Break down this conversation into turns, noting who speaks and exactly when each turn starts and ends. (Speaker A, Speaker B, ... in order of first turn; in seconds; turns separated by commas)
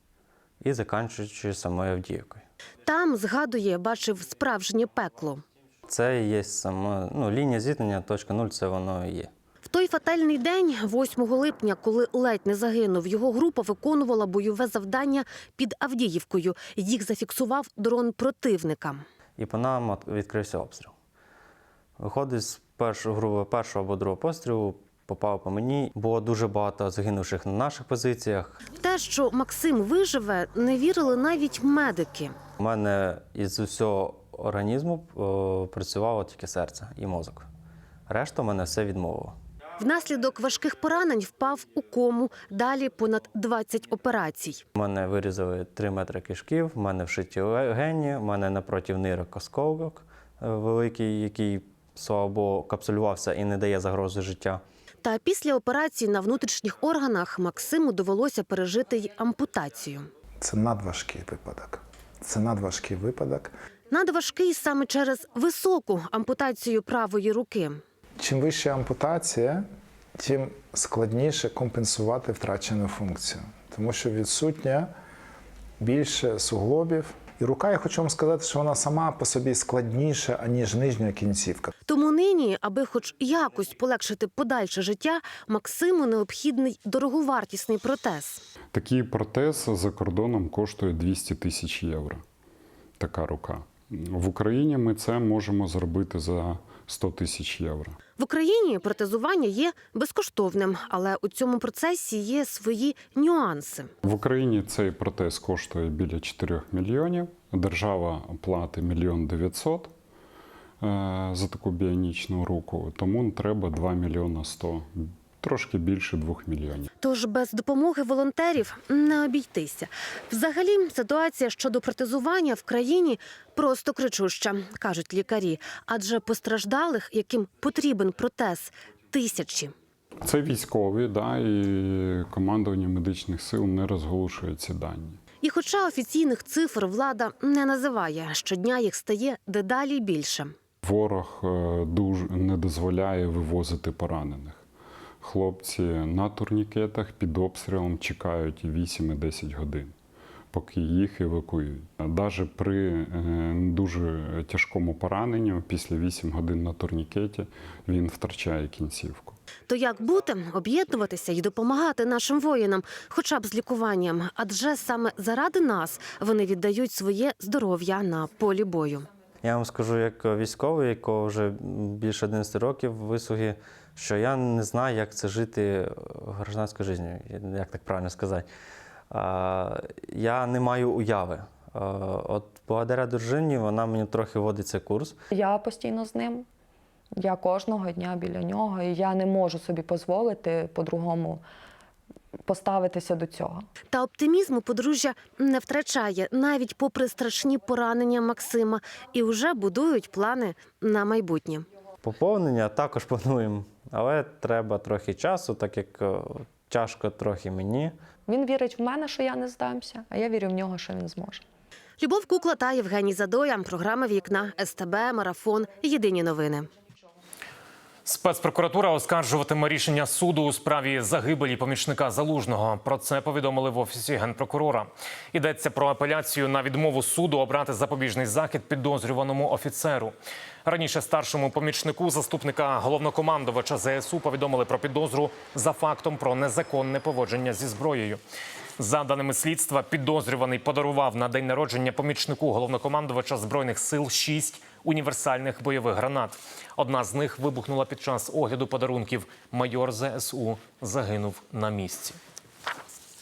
Speaker A: 0.6-2.4, Speaker B: 2.9-5.4, Speaker A: 5.9-9.3, Speaker B: 9.7-19.0, Speaker A: 19.4-20.9, Speaker A: 22.0-28.6, Speaker B: 28.8-32.4, Speaker A: 32.6-37.5, Speaker A: 38.1-39.4, Speaker B: 39.8-44.6, Speaker A: 44.8-54.6, Speaker B: 55.0-60.1, Speaker C: 60.4-63.5, Speaker B: 63.9-67.8, Speaker C: 68.2-69.6, Speaker C: 70.2-74.9, Speaker C: 75.8-81.7, Speaker B: 81.9-88.4, Speaker D: 88.7-92.2, Speaker D: 93.0-98.0, Speaker B: 98.2-103.9, Speaker D: 104.0-109.9, Speaker D: 110.8-116.9, Speaker B: 117.0-129.7, Speaker D: 130.2-135.2, Speaker B: 135.4-140.5, Speaker D: 140.8-144.6, Speaker D: 145.2-149.9, Speaker D: 150.5-159.4, Speaker B: 159.7-169.1, Speaker A: 169.4-178.5, Speaker A: 179.1-185.2, Speaker E: 185.3-186.5, Speaker E: 187.2-191.4, Speaker E: 192.5-193.7, Speaker B: 193.9-201.7, Speaker A: 202.0-207.9, Speaker E: 208.3-211.4, Speaker B: 212.0-216.7, Speaker F: 218.1-238.2, Speaker F: 238.8-252.2